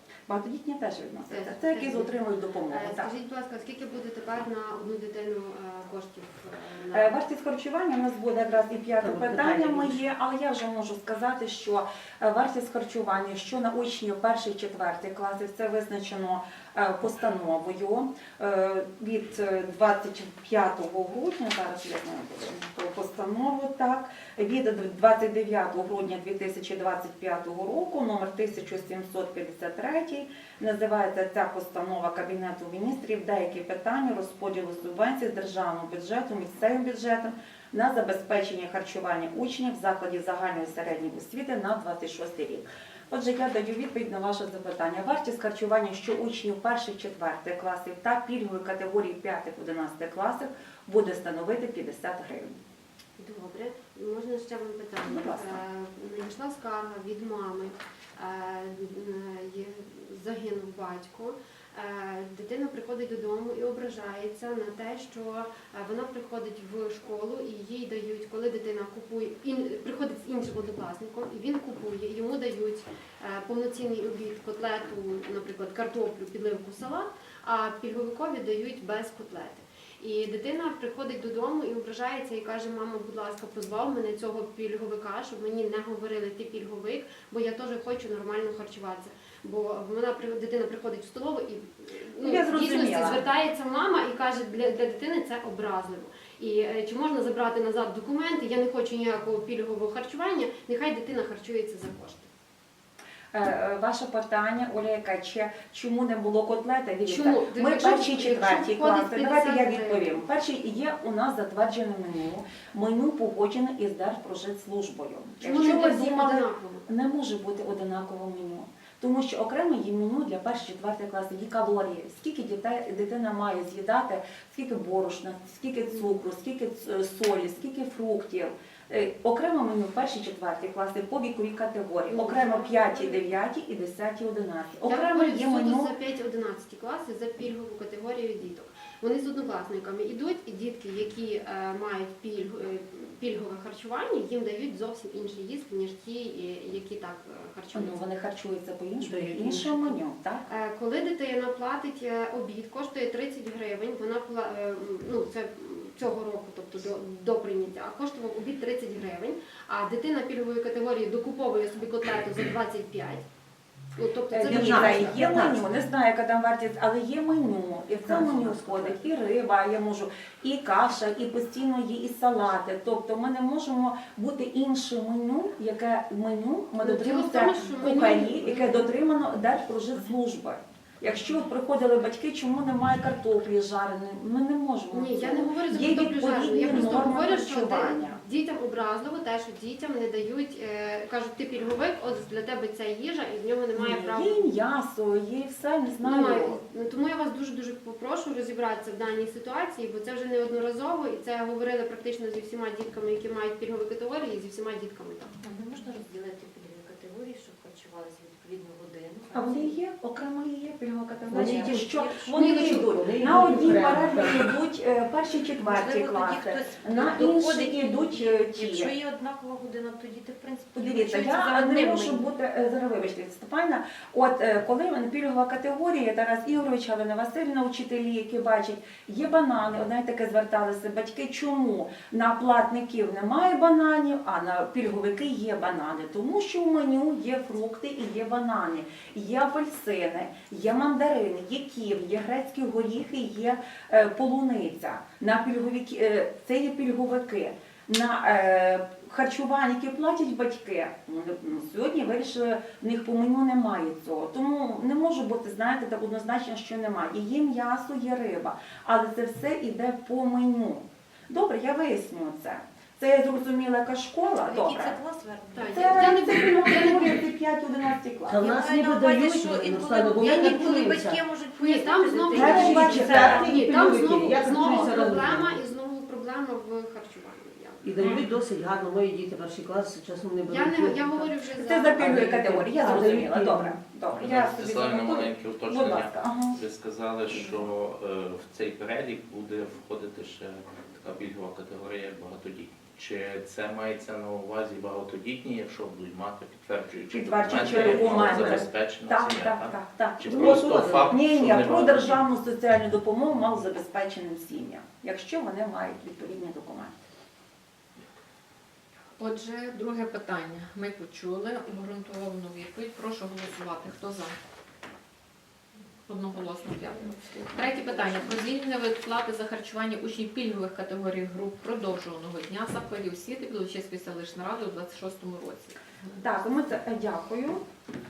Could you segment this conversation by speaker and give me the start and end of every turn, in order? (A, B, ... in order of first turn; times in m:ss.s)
0:00.3-0:03.1 A
0:01.2-0:07.1 B
0:06.9-0:52.6 A
0:09.0-0:10.1 C
0:53.2-1:42.3 B
0:55.0-0:55.6 A
1:32.2-1:33.2 A
1:43.3-2:15.9 A
1:47.0-1:50.2 B
1:55.4-1:56.8 B
2:05.9-2:06.2 B
2:12.1-2:13.2 B
2:14.8-2:28.1 B
2:27.7-2:30.5 A
2:29.0-2:30.0 C
2:30.5-2:43.2 B
2:44.0-2:45.3 B
2:44.3-3:08.2 A
2:44.4-2:45.8 C
2:48.0-2:49.0 C
2:56.8-2:58.9 B
3:04.9-3:14.5 B
3:13.8-3:16.6 A
3:16.0-3:25.4 B
3:25.4-3:29.8 D
3:29.3-3:38.9 A
3:31.3-3:34.5 C
3:31.4-3:32.3 D
3:35.6-3:42.3 D
3:40.8-4:25.0 A
4:24.4-4:26.9 D
4:25.5-4:27.2 B
4:25.7-4:28.5 A
4:28.3-4:31.2 C
4:28.3-4:33.6 D
4:31.6-4:38.1 B
4:32.3-4:35.6 C
4:32.4-4:33.5 A
4:37.8-4:41.3 C
4:40.5-4:42.4 B
4:41.5-4:46.6 A
4:42.0-4:43.8 C
4:42.9-4:43.2 E
4:44.1-5:02.2 E
4:57.1-5:07.0 A
4:57.6-4:58.6 C
5:00.2-5:01.3 C
5:09.2-5:14.4 F
5:16.1-5:25.8 F
5:17.0-5:18.4 A
5:26.1-5:27.6 A